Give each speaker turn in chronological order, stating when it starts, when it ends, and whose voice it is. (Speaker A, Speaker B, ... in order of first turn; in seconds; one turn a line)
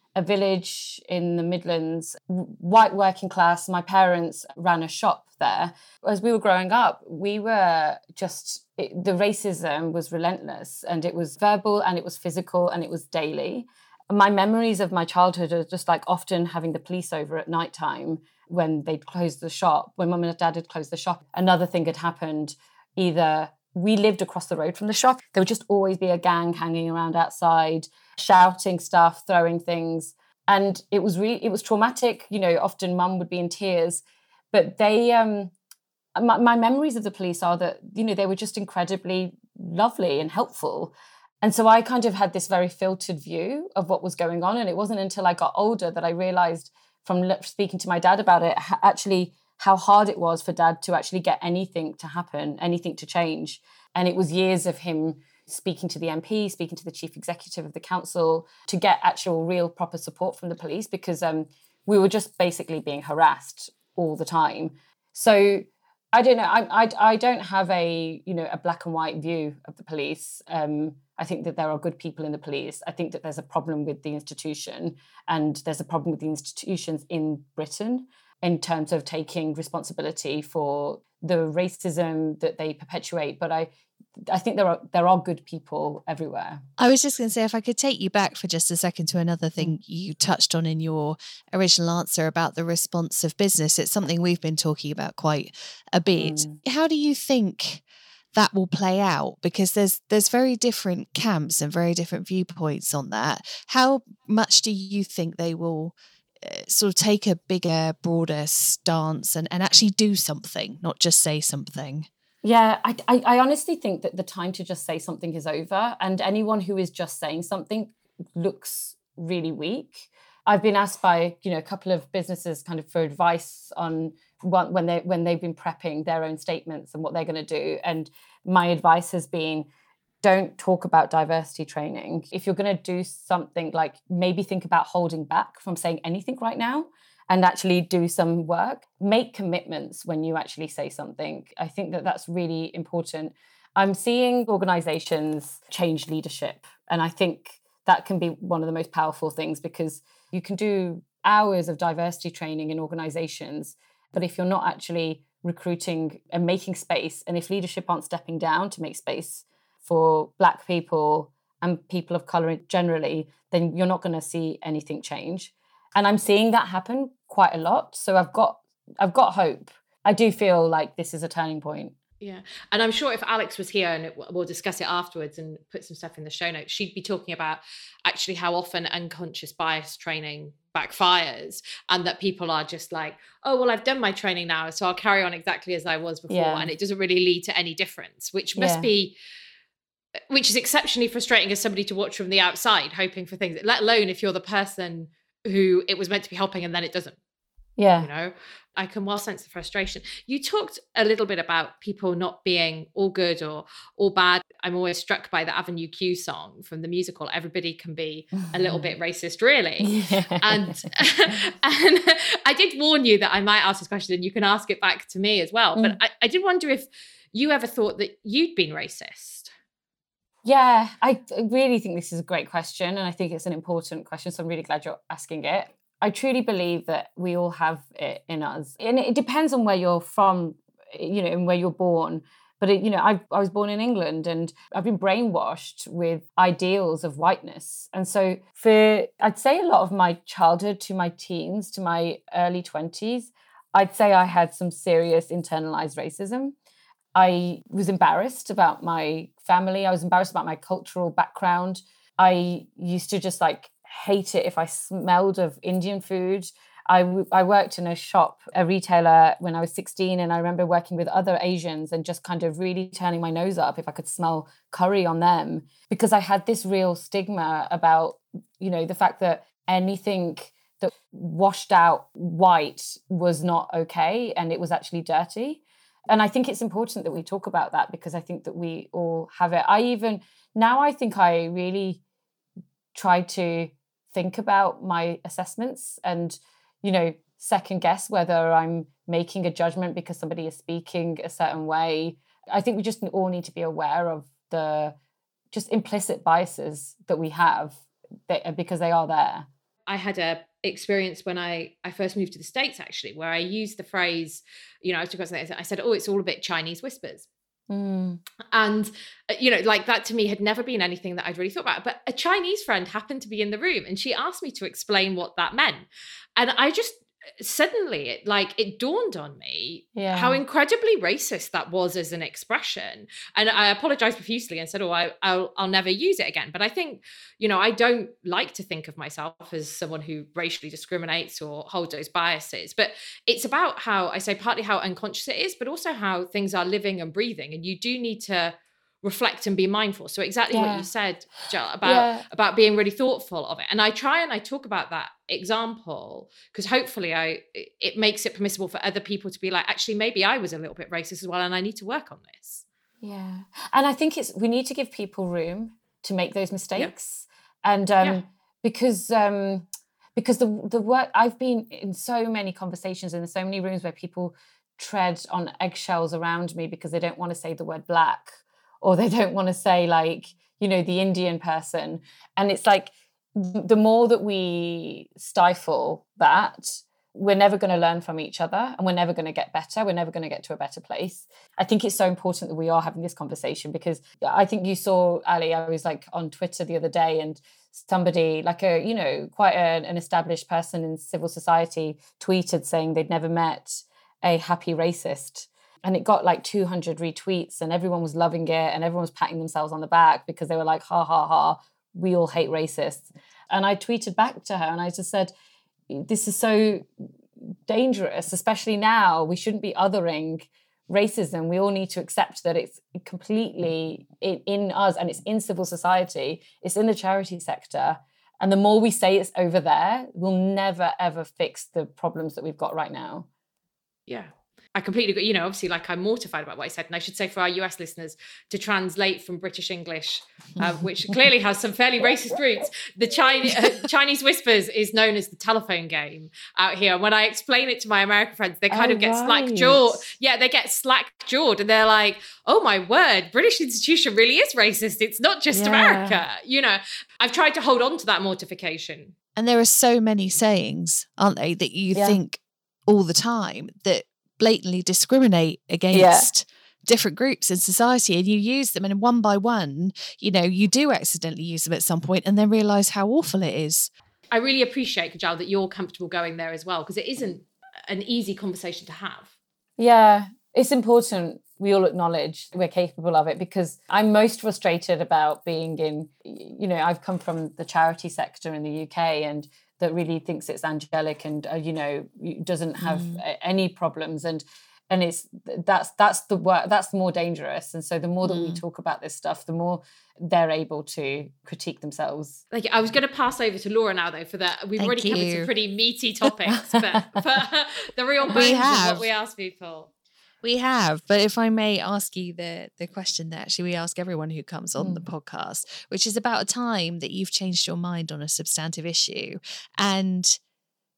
Speaker A: 0.2-35.5
Speaker A: 36.2-83.7
Speaker A: 84.3-86.6
Speaker B: 86.8-112.1
Speaker A: 96.2-96.6
Speaker A: 112.4-129.7
Speaker A: 130.2-171.9
Speaker C: 172.2-189.2
Speaker A: 186.3-186.7
Speaker A: 188.6-188.9
Speaker C: 190.3-197.2
Speaker A: 197.8-198.1
Speaker C: 198.0-219.5
Speaker A: 208.4-208.9
Speaker A: 209.8-210.8
Speaker A: 220.4-246.6
Speaker A: 247.2-282.0
Speaker A: 282.9-295.0
Speaker A: 295.5-299.5
Speaker C: 299.9-307.3
Speaker A: 307.7-308.2
Speaker C: 308.5-352.6
Speaker A: 319.9-320.4
Speaker A: 340.5-340.9
Speaker A: 341.8-342.2
Speaker A: 353.0-405.3
Speaker A: 405.9-406.9
Speaker A: 407.7-423.3
Speaker C: 424.1-449.1
Speaker A: 438.7-440.1
Speaker A: 445.5-446.2
Speaker B: 449.4-463.9
Speaker A: 451.9-452.2
Speaker A: 455.9-456.3
Speaker C: 464.3-469.3
Speaker A: 469.8-492.4
Speaker B: 482.8-483.2
Speaker B: 488.2-488.6
Speaker C: 492.5-499.9
Speaker B: 494.8-495.5
Speaker A: 496.6-497.2
Speaker B: 498.3-499.0
Speaker B: 500.4-510.4
Speaker A: 504.8-505.1